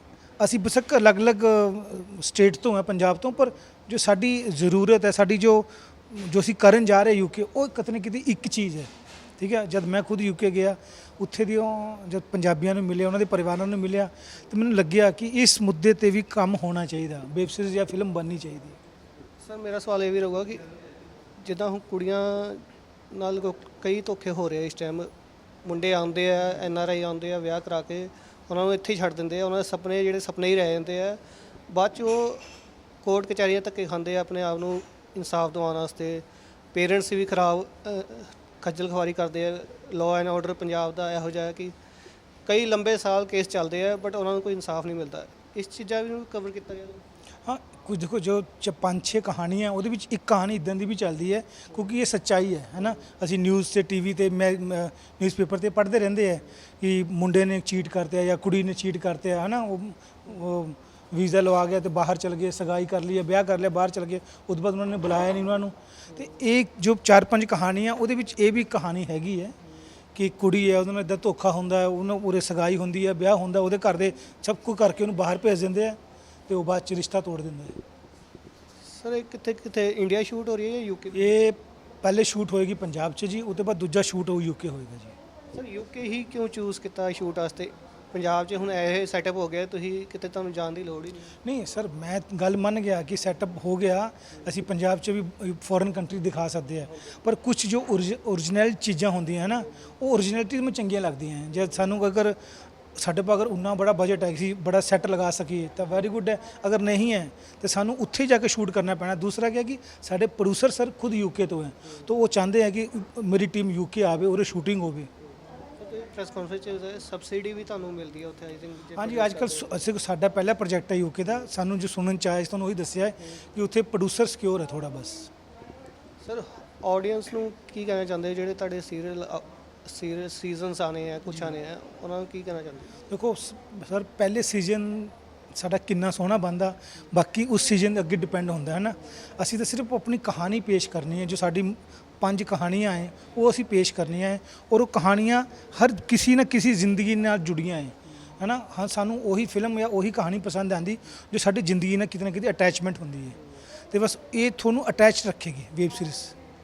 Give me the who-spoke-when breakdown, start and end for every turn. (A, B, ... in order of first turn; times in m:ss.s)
0:00.4-0:18.8 A
0:19.4-0:20.6 B
0:21.4-0:22.6 B
0:23.1-0:25.1 B
0:25.6-0:31.2 B
0:31.7-0:32.4 B
0:33.0-0:41.7 B
0:42.4-0:47.0 B
0:47.4-1:09.5 A
1:10.1-1:17.8 A
1:18.9-1:21.2 B
1:21.1-1:25.1 A
1:25.5-1:31.3 B
1:31.4-1:42.4 A
1:43.0-1:55.1 A
1:55.8-1:59.7 B
1:59.0-2:05.3 A
2:06.2-2:12.9 B
2:11.3-2:11.5 A
2:13.1-2:33.4 A
2:33.9-2:36.3 A